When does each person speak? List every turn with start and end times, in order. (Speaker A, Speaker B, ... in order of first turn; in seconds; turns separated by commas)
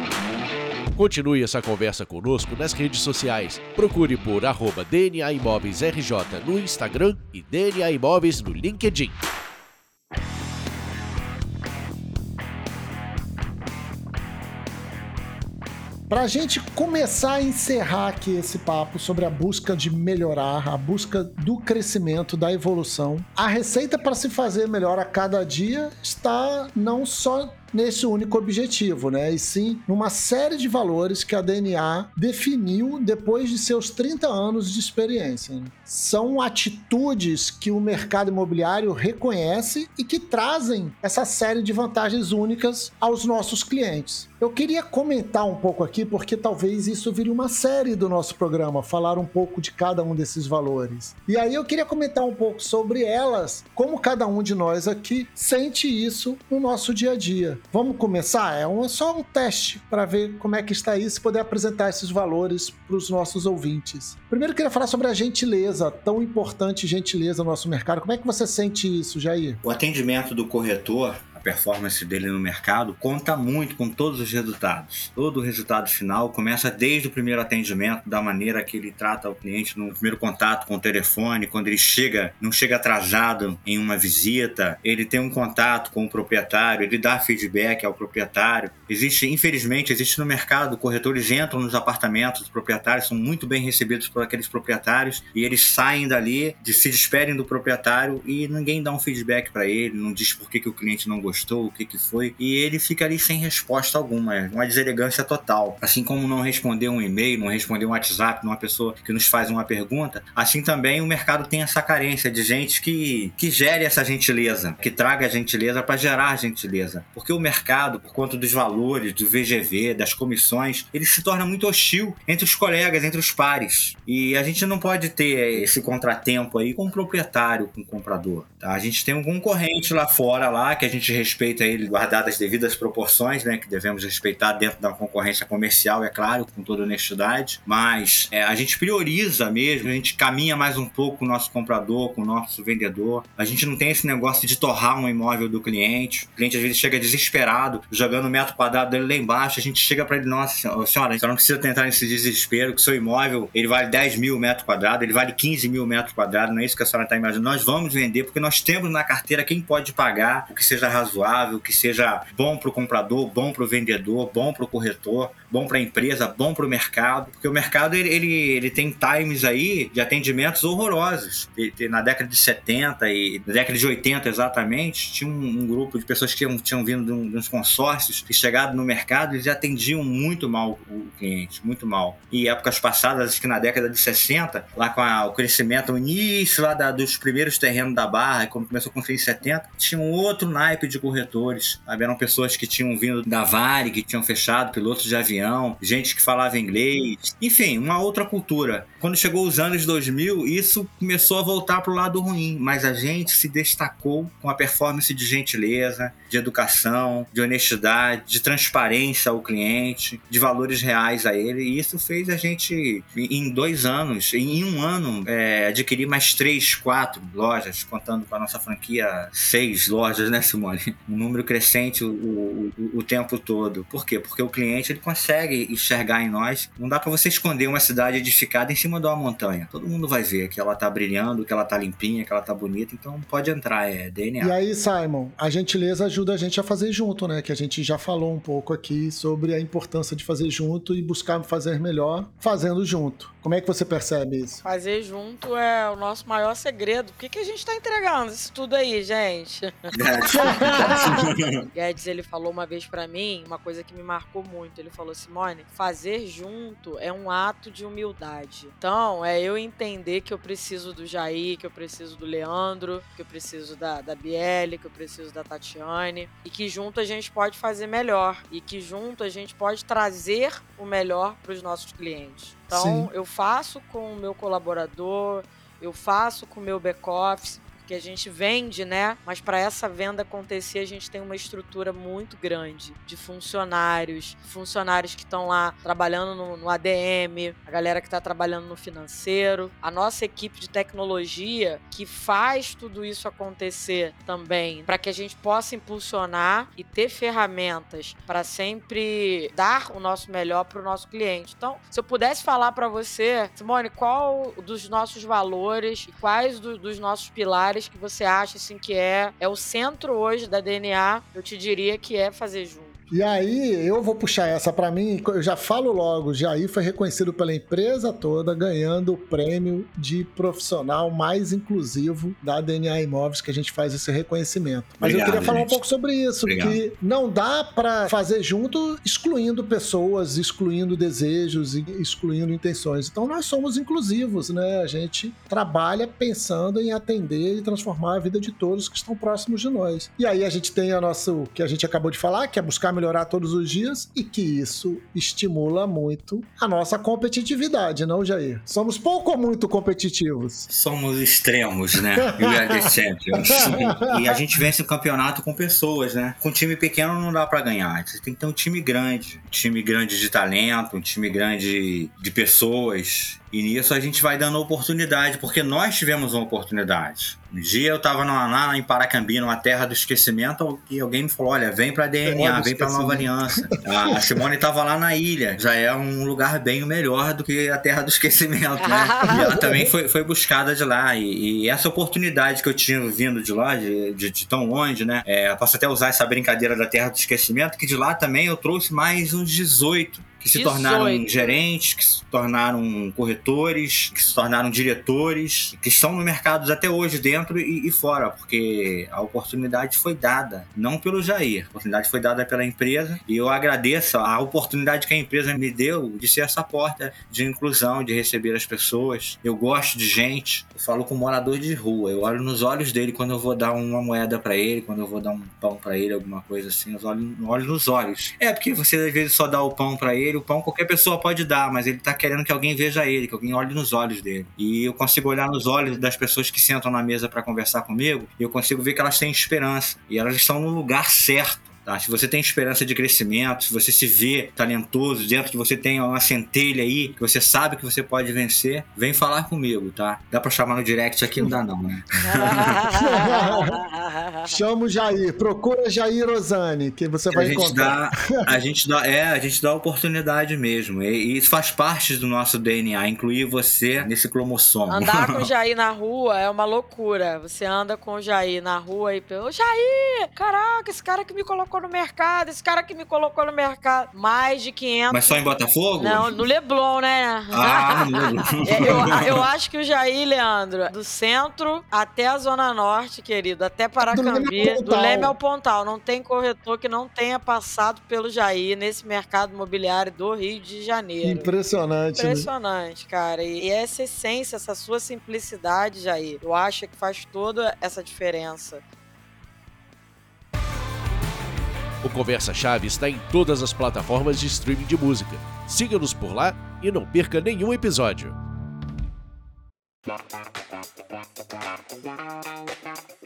Speaker A: 0.9-9.2, Speaker B: 16.1-69.6, Speaker C: 69.6-234.6, Speaker B: 234.4-244.6, Speaker D: 244.6-313.0, Speaker C: 249.9-251.6, Speaker B: 250.3-251.1, Speaker B: 272.7-273.1, Speaker B: 313.1-350.7, Speaker C: 325.0-325.8, Speaker C: 326.4-326.8, Speaker C: 350.7-442.9, Speaker B: 352.1-354.4, Speaker B: 372.2-374.2, Speaker D: 378.8-379.4, Speaker B: 379.3-379.9, Speaker D: 390.5-391.6, Speaker D: 442.2-444.6, Speaker B: 442.9-443.8, Speaker B: 444.5-448.5, Speaker C: 447.3-455.5, Speaker D: 454.9-465.4, Speaker C: 465.1-466.4, Speaker D: 466.0-481.5, Speaker C: 467.5-469.4, Speaker B: 474.1-475.4, Speaker B: 481.2-482.5, Speaker D: 482.1-488.8, Speaker A: 492.0-498.3